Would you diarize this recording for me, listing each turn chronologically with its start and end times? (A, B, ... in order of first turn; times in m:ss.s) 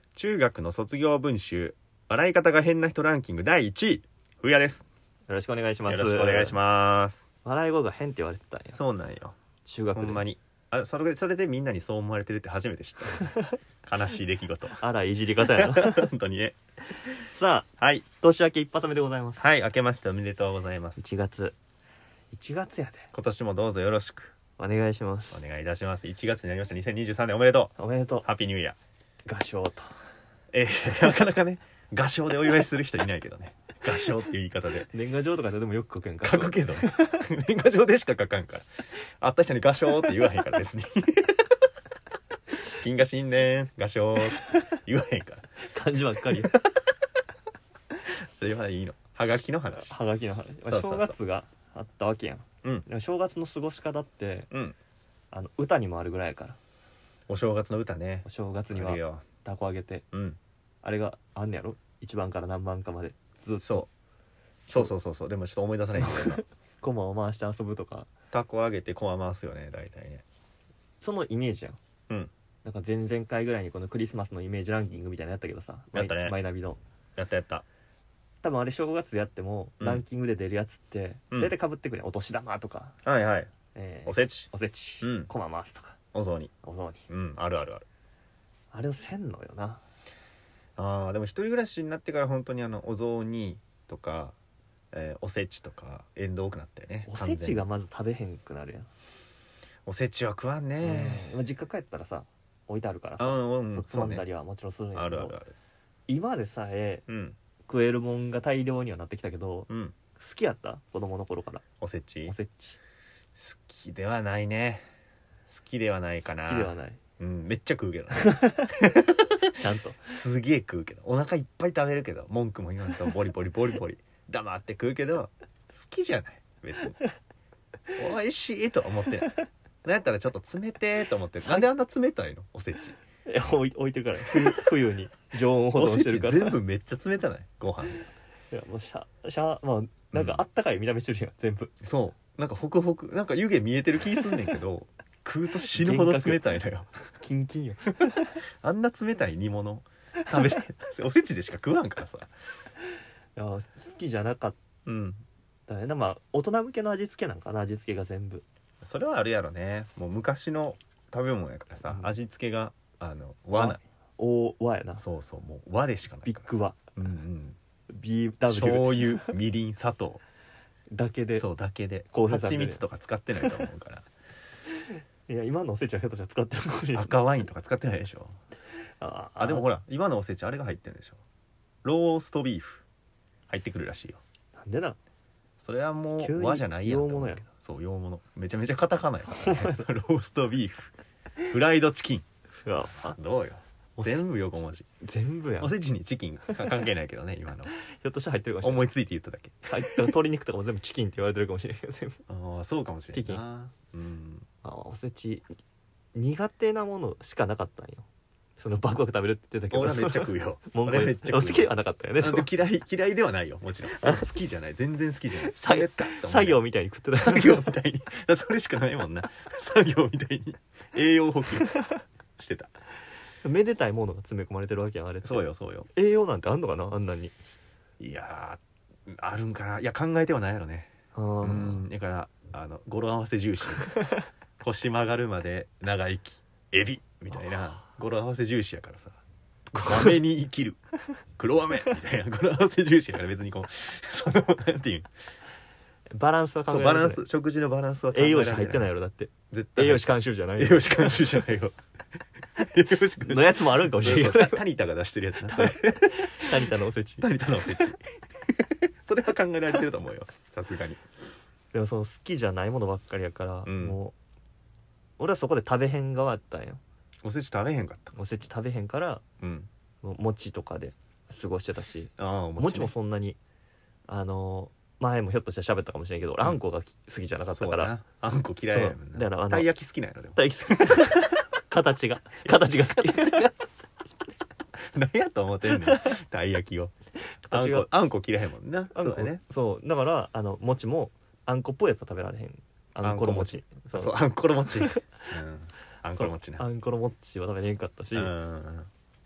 0:00.2-0:04.8 A
0:05.3-0:06.6 B
0:05.9-0:07.3 A
0:07.4-0:08.8 B
0:08.7-0:09.4 A
0:09.6-0:10.2 B
0:10.0-0:14.8 A
0:14.8-0:16.1 B
0:15.4-0:16.6 A
0:17.3-0:19.5 B
0:17.8-0:18.0 A
0:19.4-0:21.0 A
0:21.0-0:21.6 B
0:22.3-0:23.1 B
0:23.1-0:24.3 A
0:24.6-0:25.4 B
0:25.3-0:27.7 A
0:27.8-0:28.3 B
0:28.2-0:28.8 A
0:29.3-0:30.0 B
0:30.5-0:34.9 A
0:34.9-0:37.2 B
0:36.2-0:41.4 A
0:42.7-0:45.4 A
0:45.7-0:46.5 B
0:46.3-0:46.6 A
0:48.0-0:50.0 A
0:49.7-0:54.5 B
0:50.7-0:51.2 A
0:54.5-0:54.8 A
0:55.3-0:56.6 B
0:57.3-0:59.2 A
0:58.2-1:00.0 B
1:00.1-1:00.4 A
1:00.8-1:03.8 B
1:03.6-1:03.9 A
1:04.7-1:06.4 A
1:06.8-1:08.1 B
1:08.3-1:10.2 A
1:11.0-1:11.8 B
1:12.6-1:16.8 B
1:15.9-1:16.4 A
1:17.2-1:17.6 A
1:18.4-1:23.0 B
1:23.0-1:23.5 A
1:23.8-1:26.0 B
1:24.1-1:24.5 A
1:25.0-1:25.3 A
1:26.1-1:26.5 A
1:26.6-1:27.1 B
1:27.1-1:27.8 A
1:28.7-1:29.8 B
1:30.8-1:34.3 A
1:34.9-1:37.6 A
1:37.1-1:38.9 B
1:39.8-1:41.4 A
1:40.8-1:45.4 B
1:43.2-1:44.2 A
1:44.9-1:45.5 A
1:46.1-1:47.0 B
1:47.1-1:47.4 A
1:47.7-1:51.6 B
1:49.7-1:49.9 A
1:51.8-1:52.3 A
1:52.3-1:52.8 B
1:53.4-1:54.8 A
1:55.5-2:07.0 A
1:56.2-1:57.0 B
1:58.2-1:58.7 B
1:59.6-2:00.0 B
2:08.0-2:13.0 A
2:11.4-2:11.7 B
2:13.3-2:16.6 B
2:14.2-2:14.6 A
2:15.8-2:18.1 A
2:18.5-2:21.7 B
2:20.1-2:20.4 A
2:21.8-2:26.9 A
2:25.7-2:26.6 B
2:27.2-2:28.4 B
2:28.6-2:32.3 A
2:33.4-2:34.6 B
2:34.9-2:35.2 A
2:35.7-2:38.4 B
2:38.8-2:43.8 A
2:41.8-2:42.1 B
2:43.5-2:45.0 B
2:45.0-2:47.6 A
2:46.2-2:46.8 B
2:47.9-2:49.3 B
2:48.5-2:50.2 A
2:50.9-2:51.5 B
2:51.4-2:54.1 A
2:52.1-2:52.8 B
2:54.9-2:57.2 B
2:56.9-2:58.4 A
2:59.0-2:59.7 B
2:59.4-3:01.2 A
3:01.8-3:02.8 A
3:03.5-3:04.2 A
3:04.6-3:05.0 B
3:05.6-3:10.9 A
3:06.2-3:07.5 B
3:09.3-3:09.9 B
3:11.5-3:12.2 A
3:12.6-3:13.2 B
3:13.0-3:14.9 A
3:15.0-3:15.7 B
3:15.6-3:17.8 A
3:17.9-3:18.9 B
3:18.6-3:20.1 A
3:19.7-3:22.2 B
3:22.3-3:24.5 A
3:23.1-3:23.4 B
3:24.6-3:25.5 B
3:26.2-3:28.1 B
3:28.6-3:32.5 B
3:29.7-3:36.6 A
3:33.9-3:34.2 B
3:35.4-3:37.7 B
3:37.1-3:41.7 A
3:42.4-3:42.7 A
3:43.4-3:45.4 B
3:45.2-3:45.9 A
3:45.9-3:47.3 B
3:48.0-3:50.9 A
3:51.2-3:51.8 B
3:51.4-3:53.9 A
3:54.6-3:59.2 A
3:59.8-4:00.8 A
4:01.4-4:05.1 A
4:06.1-4:07.2 B
4:06.7-4:09.0 A
4:08.1-4:11.3 B
4:09.5-4:11.8 A
4:12.5-4:21.0 A
4:13.2-4:14.6 B
4:15.4-4:17.3 B
4:21.7-4:24.1 B
4:23.6-4:24.0 A
4:25.2-4:26.8 B
4:27.2-4:28.1 A
4:28.1-4:29.2 B
4:29.4-4:29.7 A
4:30.0-4:33.4 B
4:32.2-4:32.9 A
4:34.1-4:37.9 B
4:37.5-4:40.8 A
4:38.7-4:39.7 B
4:40.3-4:43.5 B
4:42.4-4:43.5 A
4:44.9-4:46.9 A
4:45.8-4:46.1 B
4:47.4-4:47.9 B
4:47.5-4:49.4 A
4:48.9-4:54.2 B
4:53.0-4:56.6 A
4:54.7-4:55.1 B
4:56.2-4:58.3 B
4:58.1-4:58.9 A